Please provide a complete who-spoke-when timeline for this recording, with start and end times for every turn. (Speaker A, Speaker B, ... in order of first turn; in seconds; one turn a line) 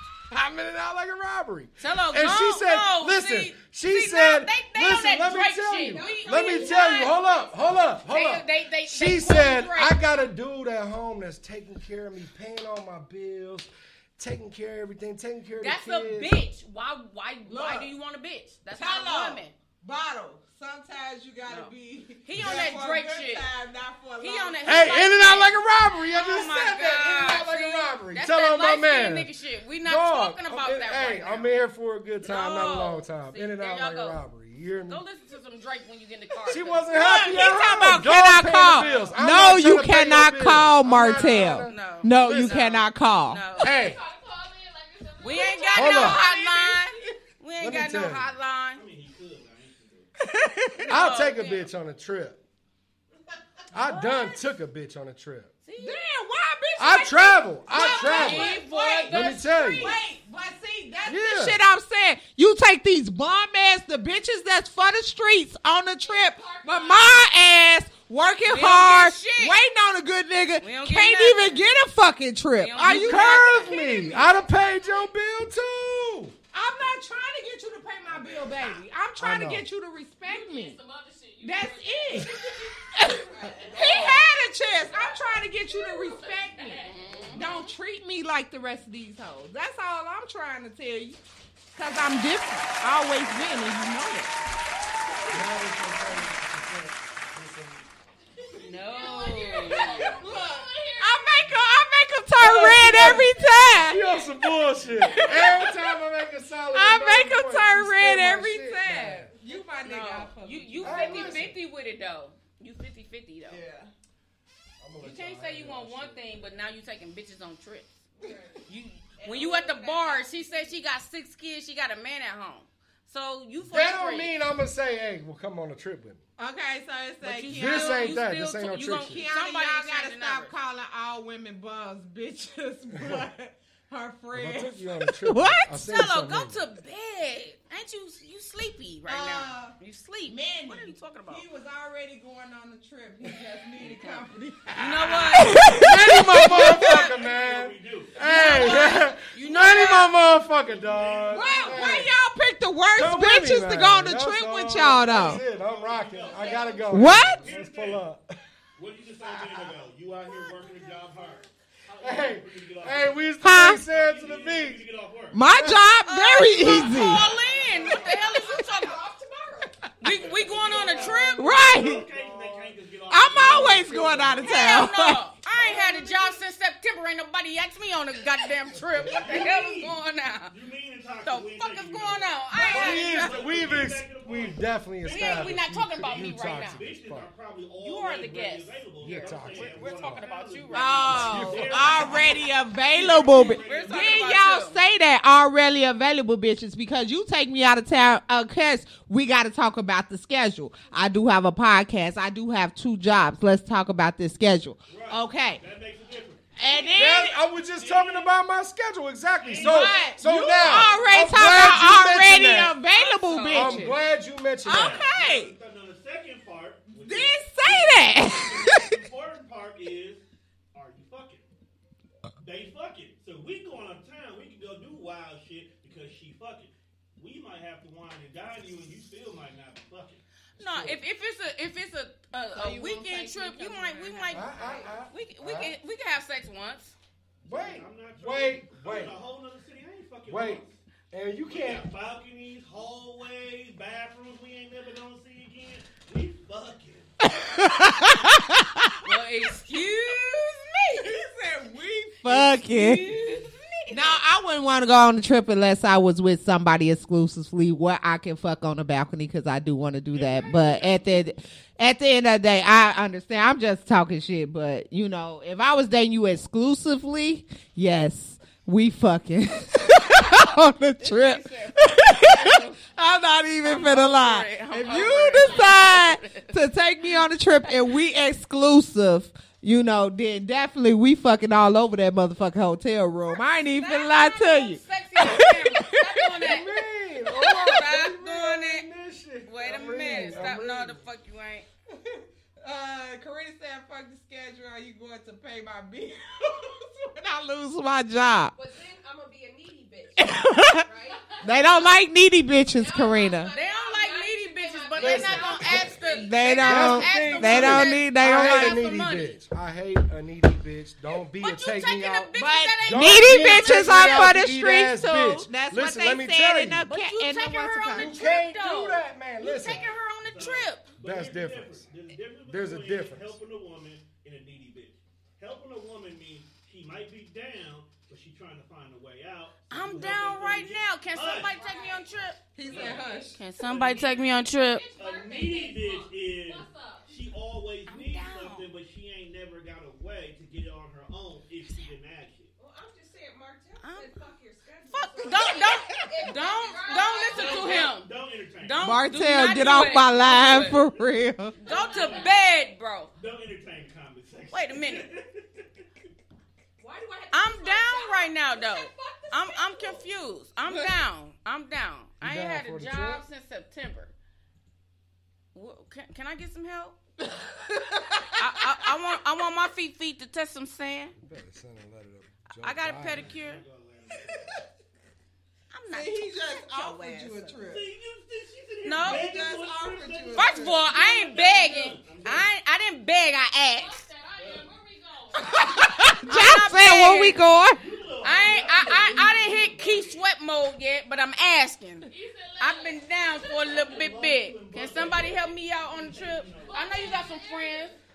Speaker A: 0.3-16.3
Speaker B: 1.8-10.0
Speaker C: 6.0-6.7
Speaker D: 6.0-6.5
Speaker E: 6.1-6.4
Speaker B: 15.6-19.5
Speaker D: 17.4-17.9
Speaker D: 18.7-25.0
Speaker B: 22.2-23.5
Speaker A: 22.4-22.8
Speaker B: 24.2-31.5
Speaker A: 24.6-29.3
Speaker A: 29.8-35.0
Speaker B: 32.2-34.2
Speaker B: 34.9-37.9
Speaker A: 36.5-42.6
Speaker D: 36.9-43.4
Speaker F: 38.7-39.2
Speaker B: 40.9-43.7
Speaker A: 43.6-44.0
Speaker E: 43.6-46.4
Speaker B: 45.2-48.8
Speaker D: 45.3-47.1
Speaker A: 45.7-46.2
Speaker A: 47.6-48.3
Speaker F: 48.7-50.1
Speaker D: 50.2-50.9
Speaker B: 50.8-51.7
Speaker A: 50.9-52.4
Speaker A: 53.7-55.5
Speaker B: 53.9-54.4
Speaker B: 55.6-56.0
Speaker D: 55.8-74.2
Speaker A: 56.8-58.5
Speaker B: 57.8-59.9
Speaker A: 59.1-59.9
Speaker A: 61.0-61.6
Speaker E: 66.0-67.3
Speaker B: 68.5-69.6
Speaker B: 70.6-71.7
Speaker B: 72.6-74.4
Speaker A: 72.8-76.3
Speaker E: 73.6-75.1
Speaker D: 76.5-80.8
Speaker A: 79.2-79.7
Speaker E: 80.2-84.2
Speaker D: 81.4-82.3
Speaker D: 82.9-91.2
Speaker C: 83.3-83.7
Speaker A: 83.6-84.2
Speaker E: 84.8-87.7
Speaker B: 86.8-87.5
Speaker D: 91.7-94.4
Speaker A: 95.3-97.8
Speaker B: 98.6-100.2
Speaker E: 98.8-101.5
Speaker D: 100.1-104.0
Speaker A: 102.4-109.3
Speaker E: 103.9-104.4
Speaker D: 105.0-105.8
Speaker D: 106.7-111.4
Speaker B: 109.8-113.6
Speaker A: 110.8-111.6
Speaker D: 113.5-113.9
Speaker A: 114.8-116.5
Speaker B: 115.0-117.9
Speaker C: 118.2-118.7
Speaker B: 118.7-124.3
Speaker D: 119.2-119.7
Speaker C: 119.2-120.8
Speaker A: 123.6-126.2
Speaker D: 126.4-128.2
Speaker B: 127.2-130.5
Speaker A: 127.5-129.2
Speaker D: 129.1-135.8
Speaker A: 132.9-133.2
Speaker A: 134.3-136.6
Speaker B: 135.7-141.4
Speaker D: 139.1-139.7
Speaker D: 140.2-146.9
Speaker B: 143.8-144.2
Speaker B: 144.7-147.1
Speaker A: 145.7-152.1
Speaker F: 146.7-148.8
Speaker B: 148.2-150.2
Speaker F: 150.6-151.7
Speaker D: 151.3-155.4
Speaker A: 152.9-158.3
Speaker F: 155.1-158.1
Speaker D: 156.9-157.4
Speaker F: 158.8-165.4
Speaker A: 159.3-159.7
Speaker A: 162.0-164.8
Speaker D: 163.4-163.8
Speaker D: 165.3-167.2
Speaker A: 165.5-165.8
Speaker B: 166.1-168.9
Speaker F: 166.6-168.2
Speaker C: 167.5-169.7
Speaker B: 170.0-171.6
Speaker F: 170.0-174.9
Speaker D: 171.3-172.1
Speaker A: 172.1-172.8
Speaker D: 173.1-175.2
Speaker B: 174.4-180.5
Speaker F: 175.5-175.8
Speaker E: 175.7-176.1
Speaker F: 179.0-179.9
Speaker F: 180.5-194.4
Speaker B: 181.2-183.3
Speaker A: 182.6-187.3
Speaker B: 185.1-186.8
Speaker B: 187.8-192.2
Speaker A: 189.0-190.2
Speaker D: 190.7-205.6
Speaker A: 191.1-192.2
Speaker B: 193.6-194.7
Speaker F: 204.9-208.3
Speaker D: 206.6-207.3
Speaker A: 206.9-212.8
Speaker F: 209.4-211.1
Speaker D: 209.5-213.9
Speaker B: 212.9-213.9
Speaker A: 213.5-215.1
Speaker D: 214.6-215.5
Speaker F: 214.7-221.4
Speaker D: 216.9-218.9
Speaker F: 222.4-230.2
Speaker A: 230.6-231.0
Speaker B: 230.6-236.9
Speaker D: 232.5-234.9
Speaker A: 234.3-235.7
Speaker A: 237.4-239.2
Speaker F: 237.4-240.8
Speaker A: 240.3-241.9
Speaker F: 241.5-247.1
Speaker D: 247.2-249.0
Speaker B: 249.0-251.1
Speaker D: 251.0-253.1
Speaker B: 252.2-254.2
Speaker D: 253.9-286.2
Speaker F: 260.1-261.0
Speaker B: 271.0-272.8
Speaker B: 273.6-276.5
Speaker B: 277.2-277.7
Speaker B: 283.8-286.7
Speaker A: 286.4-291.0
Speaker B: 287.3-288.9
Speaker B: 289.4-291.7
Speaker D: 292.6-298.5
Speaker C: 298.5-301.5
Speaker D: 300.2-300.8
Speaker E: 301.2-301.6
Speaker D: 301.4-303.5
Speaker E: 302.7-306.3
Speaker C: 303.0-304.5
Speaker B: 303.5-309.4
Speaker A: 305.0-306.0
Speaker C: 305.0-306.5
Speaker D: 306.2-308.8
Speaker A: 306.6-312.3
Speaker B: 311.1-314.3
Speaker D: 312.4-318.2
Speaker A: 312.8-316.9
Speaker B: 316.9-320.9
Speaker A: 317.9-319.9
Speaker F: 319.7-331.9
Speaker A: 321.0-321.9
Speaker A: 322.4-323.4
Speaker B: 329.7-332.4
Speaker E: 331.3-333.1
Speaker D: 332.5-333.4
Speaker F: 332.7-342.5
Speaker C: 332.7-333.1
Speaker B: 333.4-334.8
Speaker E: 334.6-337.2
Speaker C: 334.8-335.6
Speaker B: 337.9-338.7
Speaker C: 342.6-347.9
Speaker B: 343.8-344.1
Speaker B: 344.9-348.1
Speaker E: 346.4-347.9
Speaker F: 347.3-348.8
Speaker B: 348.6-350.7
Speaker D: 348.8-351.6
Speaker F: 349.6-351.0
Speaker B: 351.6-353.1
Speaker F: 351.6-352.4
Speaker E: 351.8-352.1
Speaker F: 353.2-355.8
Speaker B: 354.5-355.1
Speaker C: 356.8-360.1
Speaker B: 357.3-364.1
Speaker D: 360.6-360.9
Speaker A: 362.2-363.2
Speaker B: 365.5-367.0
Speaker D: 367.2-368.9
Speaker B: 368.4-371.1
Speaker A: 371.2-373.3
Speaker B: 372.6-373.6
Speaker F: 373.0-374.7
Speaker B: 375.7-377.6
Speaker D: 375.9-377.9
Speaker F: 377.6-382.5
Speaker B: 378.8-379.3
Speaker D: 379.0-380.8
Speaker B: 380.3-384.0
Speaker E: 383.8-386.2
Speaker F: 384.4-384.7
Speaker D: 385.4-387.8
Speaker B: 386.2-387.4
Speaker F: 387.8-390.2
Speaker B: 388.2-392.1
Speaker E: 392.1-393.9
Speaker B: 392.6-397.9
Speaker F: 393.6-397.3
Speaker E: 396.6-397.9